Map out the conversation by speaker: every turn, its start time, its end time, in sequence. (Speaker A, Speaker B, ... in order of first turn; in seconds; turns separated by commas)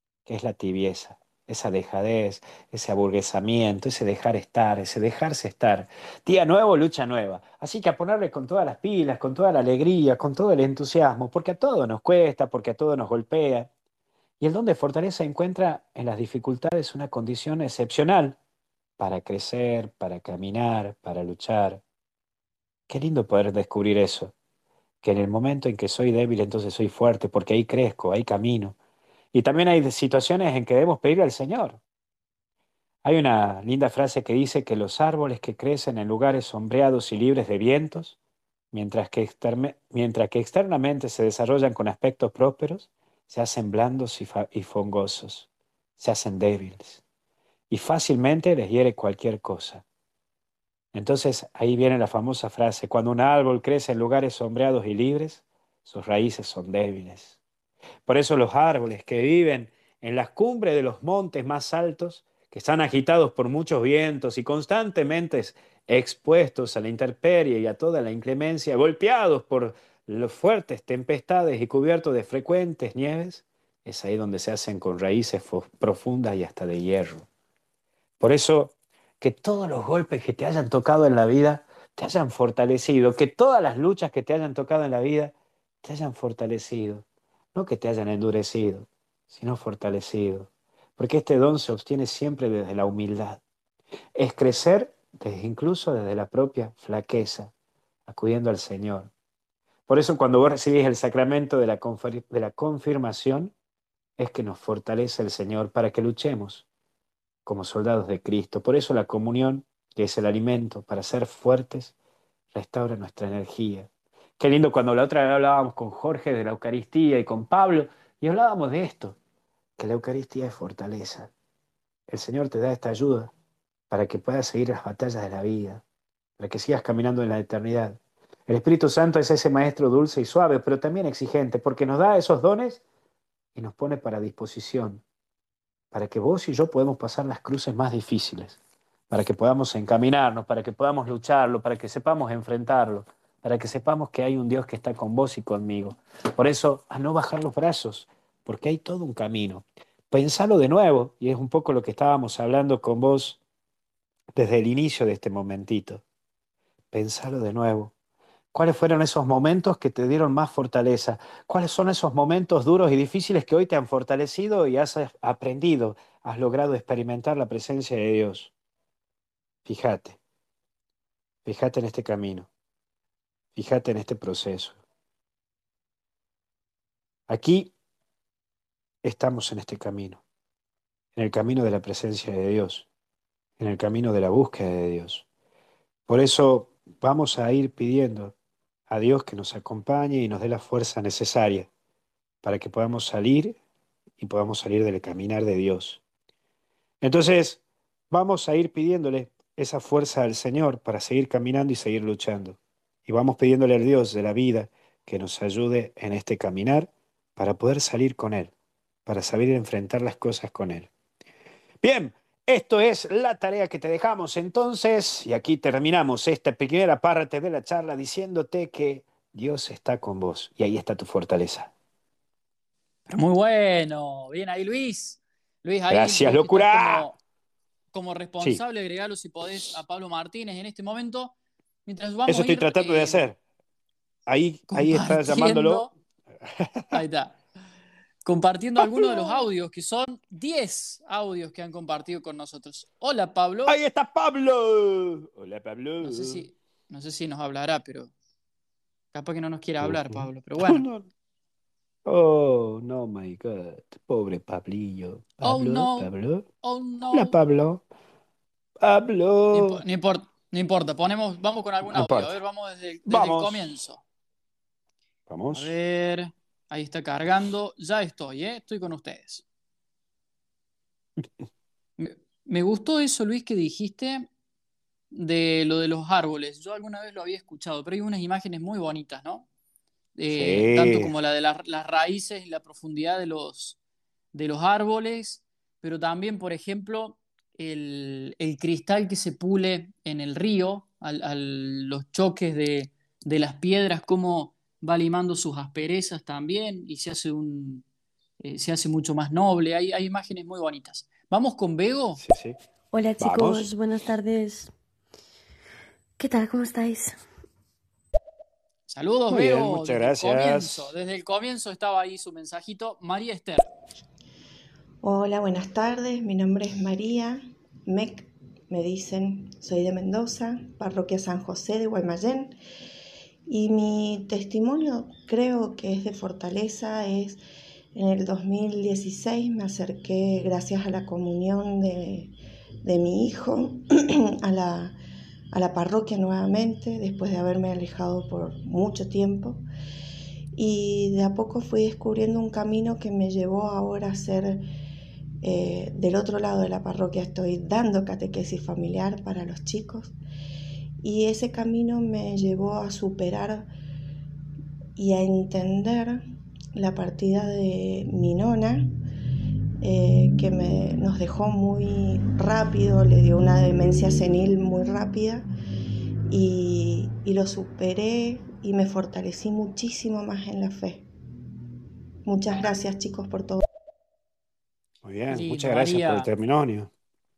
Speaker A: 0.3-13.7, Speaker A: 14.4-18.4, Speaker A: 19.0-21.8, Speaker A: 22.9-24.3, Speaker A: 25.0-28.8, Speaker A: 29.3-31.8, Speaker A: 33.0-38.2, Speaker A: 38.7-47.0, Speaker A: 47.7-49.8, Speaker A: 50.9-57.4, Speaker A: 58.1-77.3, Speaker A: 78.2-93.4, Speaker A: 94.2-97.5, Speaker A: 98.1-99.1, Speaker A: 99.9-103.5, Speaker A: 104.2-106.7, Speaker A: 107.5-111.9, Speaker A: 112.5-119.2, Speaker A: 119.8-121.3, Speaker A: 122.1-123.3, Speaker A: 123.9-125.8, Speaker A: 126.4-132.8, Speaker A: 133.6-135.0, Speaker A: 135.9-138.6, Speaker A: 139.1-153.4, Speaker A: 154.3-156.0, Speaker A: 156.9-157.9, Speaker A: 158.5-168.5, Speaker A: 169.7-170.2, Speaker A: 171.4-172.5, Speaker A: 173.6-174.8, Speaker A: 177.3-177.7, Speaker A: 179.0-180.2, Speaker A: 181.2-182.9, Speaker A: 183.6-185.2, Speaker A: 186.1-188.3, Speaker A: 188.9-191.7, Speaker A: 192.4-193.6, Speaker A: 194.2-196.0, Speaker A: 197.0-208.5, Speaker A: 209.1-210.9, Speaker A: 211.8-221.7, Speaker B: 223.1-227.2, Speaker A: 225.9-227.1, Speaker B: 227.9-231.3, Speaker B: 231.9-233.2, Speaker A: 232.3-233.4, Speaker A: 234.3-235.9, Speaker B: 234.7-235.9, Speaker A: 236.4-236.9, Speaker B: 236.9-237.4, Speaker B: 238.2-243.8, Speaker A: 238.8-239.5, Speaker A: 243.7-246.4, Speaker B: 246.0-248.1, Speaker B: 249.1-250.8, Speaker A: 249.8-251.1, Speaker A: 252.1-256.5, Speaker B: 255.4-256.1, Speaker B: 256.6-257.4, Speaker A: 257.1-257.8, Speaker A: 258.8-259.8, Speaker B: 259.5-264.0, Speaker A: 261.8-262.4, Speaker A: 263.1-263.7, Speaker A: 265.3-265.7, Speaker B: 265.5-269.4, Speaker B: 272.0-274.3, Speaker B: 275.1-279.5, Speaker B: 280.2-283.8, Speaker A: 280.3-281.1, Speaker B: 284.3-297.8, Speaker B: 298.4-302.2, Speaker A: 302.2-302.6, Speaker C: 302.9-304.7, Speaker A: 303.2-303.7, Speaker C: 306.2-307.2, Speaker B: 308.9-313.7, Speaker A: 309.3-310.9, Speaker D: 315.0-322.6, Speaker D: 323.5-327.4, Speaker D: 327.9-335.0, Speaker D: 335.5-339.6, Speaker D: 340.6-344.6, Speaker D: 345.4-350.1, Speaker D: 351.0-353.7, Speaker D: 355.0-358.9, Speaker D: 359.8-365.5, Speaker D: 366.3-371.1, Speaker D: 372.2-373.6, Speaker A: 375.0-376.9, Speaker B: 375.3-376.3